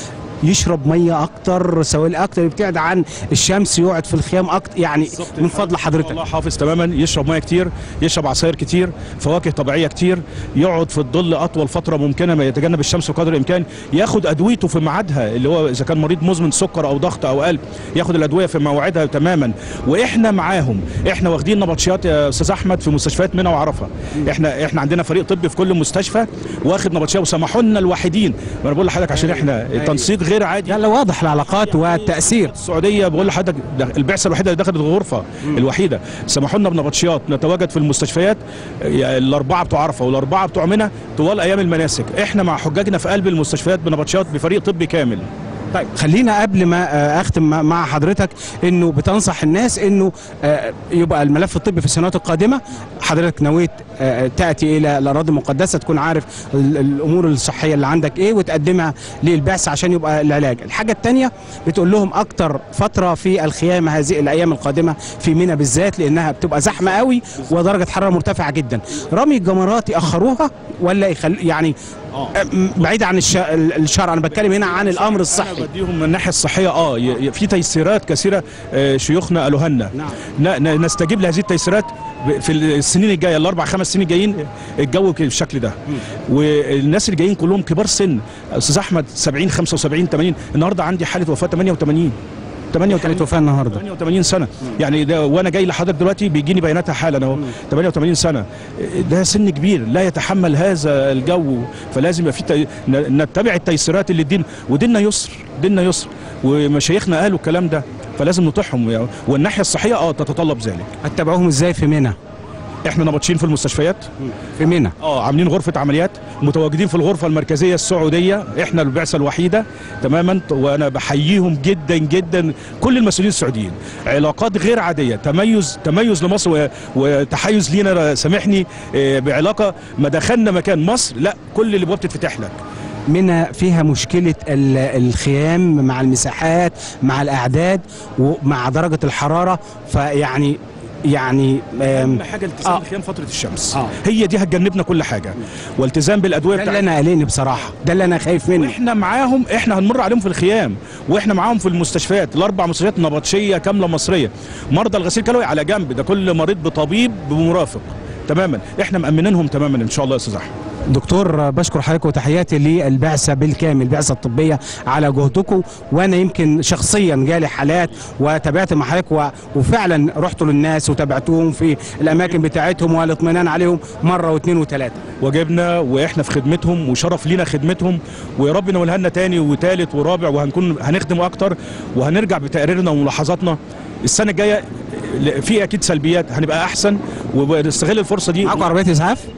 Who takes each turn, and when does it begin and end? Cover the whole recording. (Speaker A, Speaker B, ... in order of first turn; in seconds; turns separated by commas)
Speaker A: 0.4-6.2, Speaker B: 5.1-30.8, Speaker A: 29.4-30.1, Speaker A: 30.7-32.5, Speaker B: 31.6-45.3, Speaker A: 45.7-71.8, Speaker A: 72.3-75.7, Speaker B: 74.3-92.2, Speaker B: 92.7-110.9, Speaker A: 92.9-93.8, Speaker A: 111.0-112.2, Speaker B: 112.9-114.1, Speaker A: 114.4-115.0, Speaker B: 115.0-132.6, Speaker A: 133.1-142.8, Speaker B: 141.8-146.9, Speaker A: 146.5-148.8, Speaker B: 148.6-160.5, Speaker A: 160.9-175.0, Speaker B: 175.2-188.6, Speaker A: 188.4-189.3